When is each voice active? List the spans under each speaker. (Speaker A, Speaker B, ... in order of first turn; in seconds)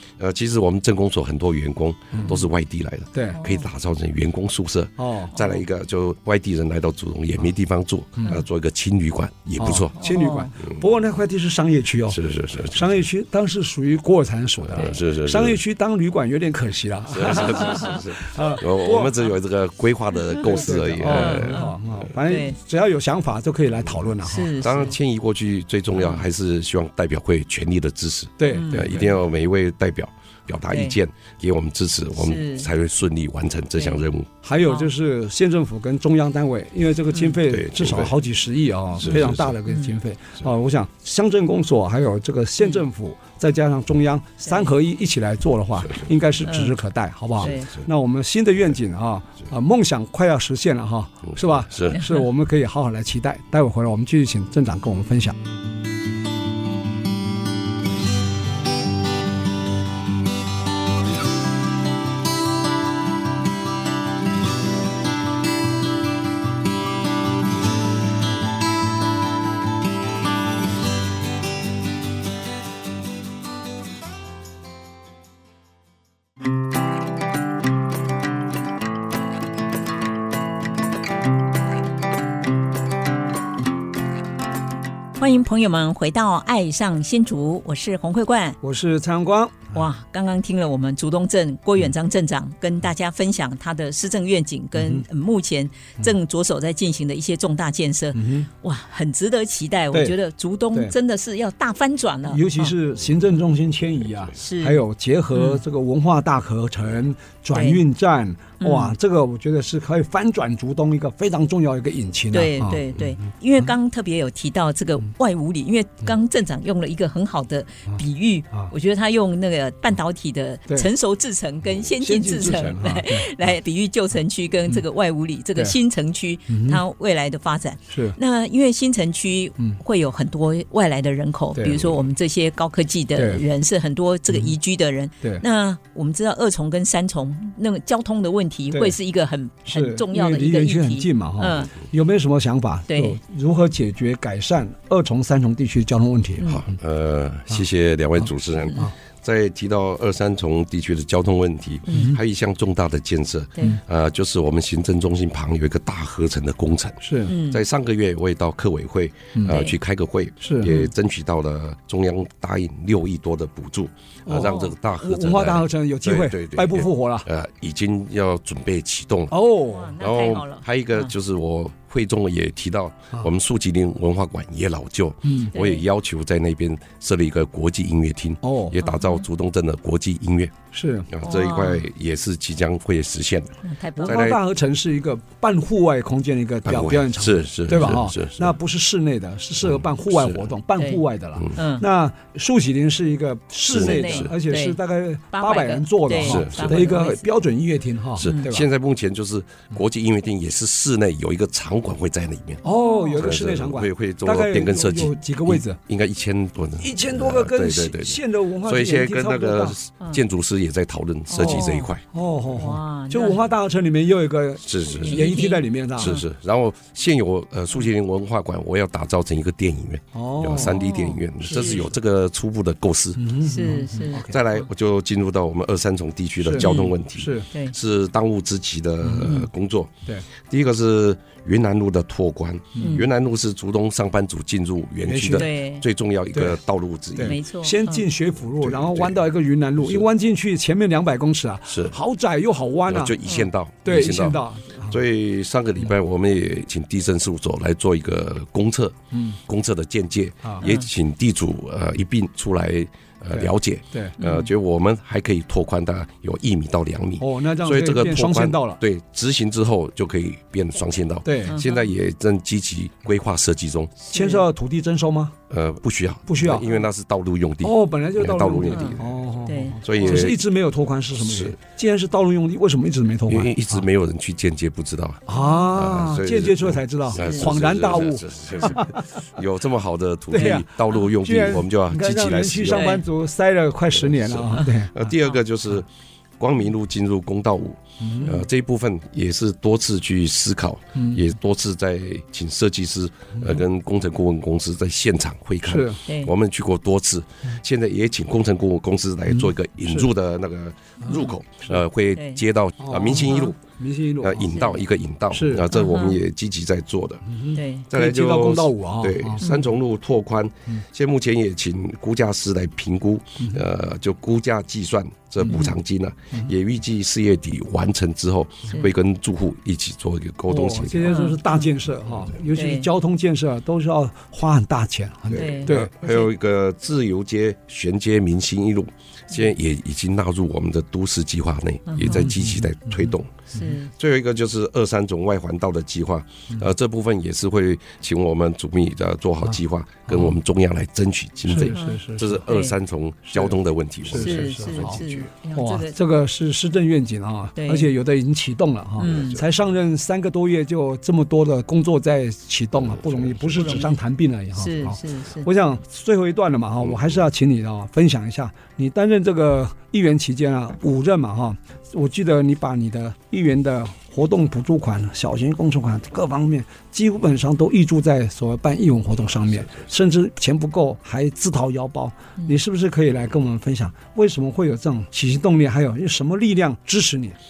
Speaker A: 0.2-10.0, 10.6-10.8, 12.1-13.0, 14.7-15.6, 17.1-21.7, 24.6-34.3, 37.5-38.1, 39.0-39.5, 51.6-52.0, 146.4-169.3, 170.0-180.5, 181.1-184.4, 186.7-188.5, 189.7-190.5, 193.7-194.3, 196.1-196.9, 198.2-202.6, 203.2-212.0, 214.6-215.3, 216.0-223.3, 224.1-229.9, 230.4-237.4, 238.6-239.2, 239.8-240.1, 241.7-241.9, 242.9-264.1, 265.5-269.1, 269.8-270.4, 271.2-271.6, 273.3-275.2, 275.7-282.9, 283.9-285.9, 286.4-303.5, 304.2-307.3, 307.9-321.2, 325.3-345.3, 349.0-349.4, 352.8-353.7, 356.8-357.2
Speaker B: 2.1-2.4, 3.1-3.4, 5.0-5.5, 9.6-19.1, 20.4-24.9, 28.4-29.1, 34.4-55.4, 88.6-89.7, 94.8-95.0, 98.1-98.5, 102.3-112.9, 122.0-123.3, 126.5-126.8, 127.9-128.2, 131.5-131.9, 133.2-133.4, 138.7-139.0, 139.7-146.5, 151.9-152.2, 157.0-157.3, 159.3-159.6, 160.4-160.7, 164.2-167.3, 169.3-169.9, 175.2-175.5, 178.4-178.7, 180.7-181.1, 184.0-198.7, 202.6-205.8, 206.8-209.8, 211.4-216.2, 220.1-220.8, 221.4-221.9, 223.2-224.4, 226.4-227.5, 229.0-229.4, 232.8-233.0, 235.0-235.4, 237.1-243.2, 243.8-245.0, 249.1-249.4, 253.3-254.2, 257.2-258.8, 261.2-261.5, 264.1-265.3, 266.3-266.6, 267.6-273.8, 275.3-279.2, 280.3-284.9, 288.0-288.4, 290.9-291.2, 295.6-296.0, 299.3-300.1, 301.1-301.7, 302.8-304.6, 305.3-305.7, 307.3-309.4, 320.5-325.9, 332.0-333.6, 341.5-342.5, 343.3-343.6, 344.1-345.0, 345.5-377.4
Speaker C: 3.3-3.6, 10.0-10.5, 21.1-22.6, 24.2-24.9, 25.9-26.2, 28.5-28.9, 30.7-30.9, 32.2-32.7, 34.6-34.9, 39.7-39.9, 46.4-46.7, 47.4-47.7, 51.9-52.2, 85.2-88.6, 89.7-102.7, 104.4-104.8, 105.3-105.6, 107.5-107.8, 108.6-108.9, 112.3-141.7, 142.9-143.2, 151.9-152.1, 157.3-157.6, 159.5-159.8, 164.3-164.7, 169.6-171.1, 175.5-175.8, 178.8-179.1, 181.2-181.8, 183.7-184.3, 190.8-191.0, 191.6-191.8, 193.7-194.8, 195.3-197.2, 198.2-198.5, 202.7-203.3, 211.3-211.9, 212.5-213.4, 215.0-216.2, 220.6-221.9, 223.4-224.2, 226.6-226.9, 232.8-233.1, 235.3-235.8, 237.2-238.0, 254.2-254.5, 261.5-261.9, 264.1-264.4, 268.7-270.3, 275.3-275.7, 277.2-277.4, 282.7-283.0, 296.1-296.3, 305.7-306.2, 307.5-307.9, 315.4-315.7, 321.1-321.7, 322.5-322.9, 325.3-326.2, 331.9-332.3, 333.5-333.9, 341.7-342.7, 344.2-345.9, 347.6-347.9, 349.0-349.4, 353.6-353.9, 354.6-355.5